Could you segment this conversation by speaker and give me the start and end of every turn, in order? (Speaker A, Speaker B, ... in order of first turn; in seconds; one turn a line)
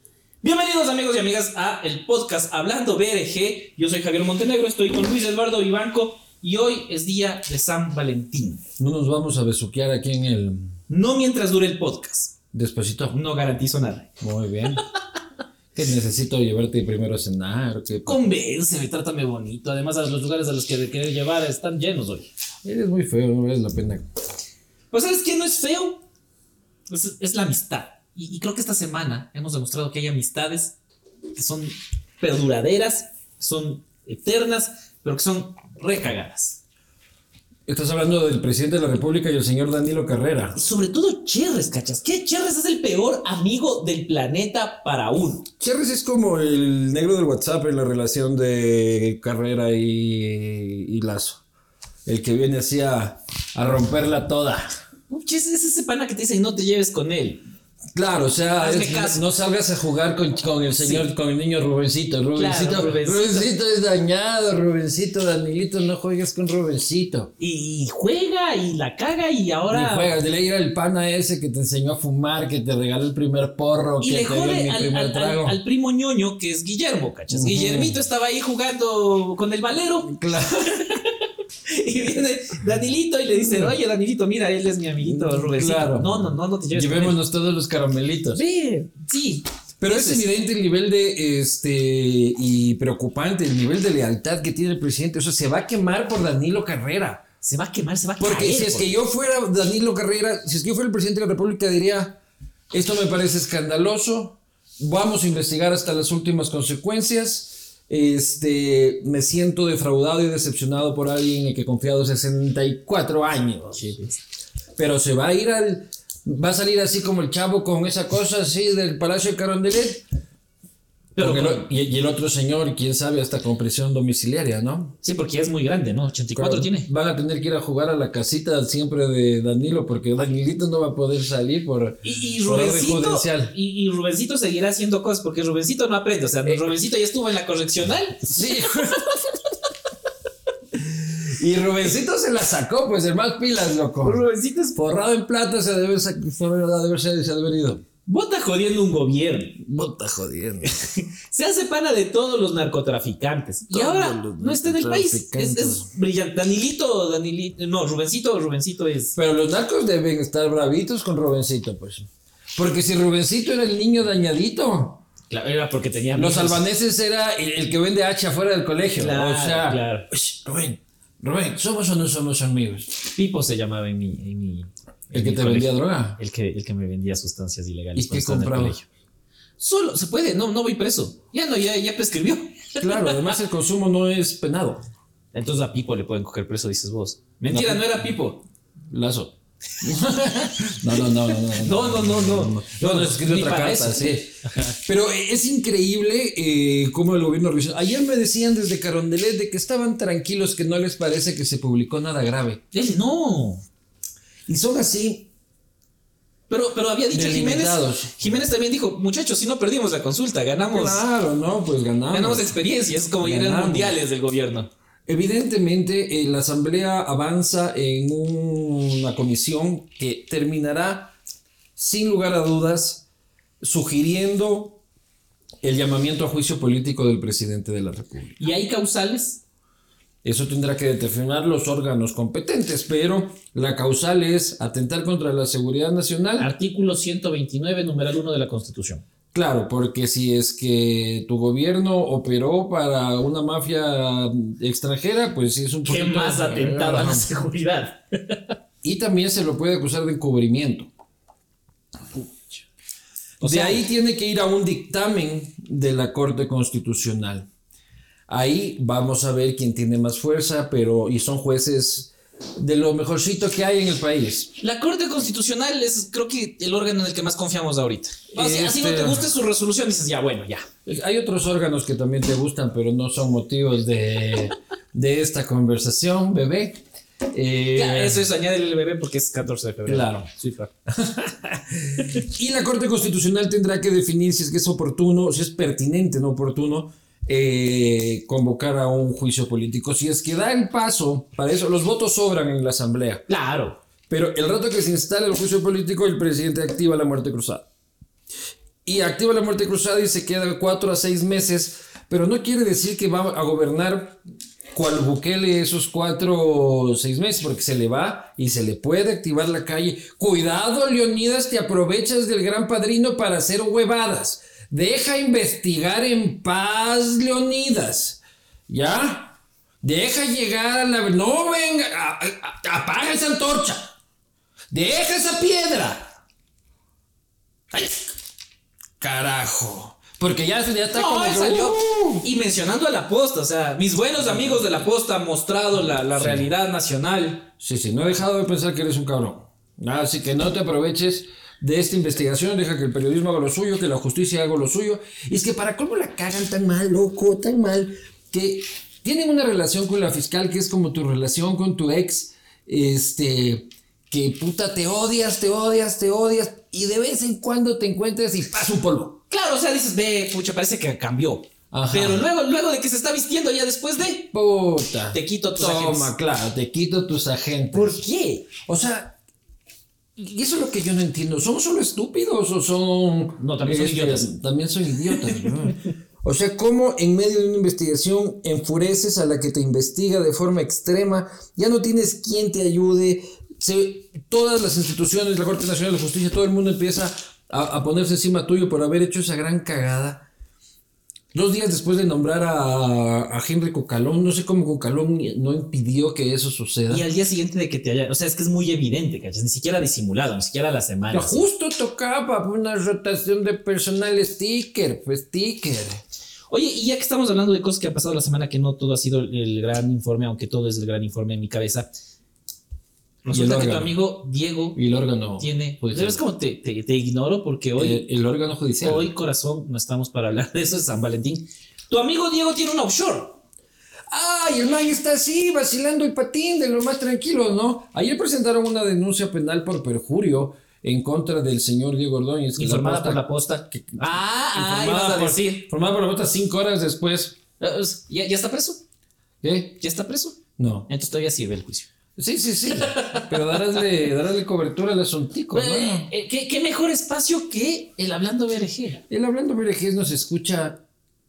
Speaker A: 0.4-8.6
Speaker B: 8.8-10.7
Speaker A: 10.9-12.4
Speaker B: 12.5-13.2
Speaker A: 13.1-14.1
Speaker B: 14.2-14.8
Speaker B: 15.7-18.3
Speaker A: 18.1-22.3
Speaker B: 22.6-24.1
Speaker A: 24.9-26.0
Speaker A: 26.9-30.8
Speaker A: 31.4-36.6
Speaker B: 37.7-40.6
Speaker A: 40.5-45.5
Speaker B: 45.6-51.4
Speaker B: 52.1-54.7
Speaker A: 55.1-57.4
Speaker B: 58.0-67.3
Speaker A: 58.6-59.2
Speaker A: 60.8-61.1
Speaker A: 62.3-63.5
Speaker A: 67.4-70.1
Speaker B: 69.7-75.6
Speaker A: 74.0-80.2
Speaker B: 77.3-78.0
Speaker B: 80.0-81.0
Speaker A: 80.7-81.1
Speaker A: 81.7-87.2
Speaker B: 83.3-83.7
Speaker B: 85.0-88.4
Speaker A: 88.3-90.3
Speaker B: 89.8-97.2
Speaker A: 97.4-99.0
Speaker B: 98.2-102.2
Speaker B: 102.7-114.0
Speaker A: 113.7-114.2
Speaker B: 114.8-120.0
Speaker A: 121.2-121.6
Speaker B: 121.2-125.0
Speaker A: 125.0-126.9
Speaker B: 126.3-133.6
Speaker A: 132.0-138.6
Speaker B: 138.2-139.4
Speaker B: 140.8-147.8
Speaker A: 144.0-144.8
Speaker A: 148.1-149.6
Speaker B: 149.6-150.7
Speaker A: 150.6-159.2
Speaker B: 153.7-155.9
Speaker B: 159.2-165.0
Speaker A: 165.3-166.6
Speaker B: 166.2-172.9
Speaker A: 168.9-170.1
Speaker A: 173.1-178.9
Speaker B: 175.1-176.2
Speaker B: 178.0-178.8
Speaker A: 179.6-183.3
Speaker B: 182.8-184.8
Speaker A: 185.3-188.5
Speaker B: 187.5-188.1
Speaker B: 188.9-202.6
Speaker A: 191.5-194.7
Speaker A: 202.7-203.6
Speaker B: 204.5-205.3
Speaker A: 206.5-211.1
Speaker B: 207.1-208.3
Speaker B: 210.7-212.6
Speaker A: 212.1-214.7
Speaker B: 213.2-214.0
Speaker B: 215.1-221.2
Speaker B: 221.8-223.1
Speaker B: 223.6-224.8
Speaker B: 225.6-228.5
Speaker A: 228.4-229.4
Speaker B: 230.2-236.5
Speaker A: 236.4-239.0
Speaker B: 239.3-247.3
Speaker A: 245.8-248.4
Speaker B: 248.8-250.9
Speaker A: 253.4-253.9
Speaker B: 253.4-257.5
Speaker B: 258.3-264.5
Speaker A: 264.6-270.6
Speaker B: 268.4-269.3
Speaker B: 270.9-278.3
Speaker A: 277.7-280.7
Speaker B: 279.9-280.3
Speaker B: 281.0-293.2
Speaker A: 293.3-293.8
Speaker B: 294.1-297.7
Speaker B: 298.9-304.2
Speaker B: 304.7-323.9
Speaker B: 324.7-326.1
Speaker B: 327.7-328.1
Speaker B: 329.0-332.3
Speaker A: 330.9-337.5
Speaker B: 334.2-334.6
Speaker B: 336.2-336.5
Speaker B: 337.6-359.2
Speaker A: 359.3-364.3
Speaker B: 361.7-362.2
Speaker B: 364.3-368.0
Speaker A: 365.1-366.1
Speaker A: 367.7-368.5
Speaker B: 368.6-369.2
Speaker B: 370.2-390.3
Speaker A: 373.4-374.3
Speaker A: 375.1-375.4
Speaker B: 391.3-397.1
Speaker A: 396.9-401.5
Speaker B: 401.1-406.0
Speaker A: 406.5-411.9
Speaker A: 413.2-414.8
Speaker B: 413.3-414.0
Speaker B: 414.8-416.2
Speaker A: 415.4-418.1
Speaker B: 417.8-419.1
Speaker A: 418.8-423.4
Speaker B: 424.1-437.4
Speaker A: 432.6-435.6
Speaker A: 437.6-438.8
Speaker B: 439.4-439.8
Speaker A: 439.8-441.9
Speaker B: 440.6-440.9
Speaker B: 442.2-446.1
Speaker A: 442.7-443.9
Speaker A: 445.5-449.0
Speaker B: 449.1-450.8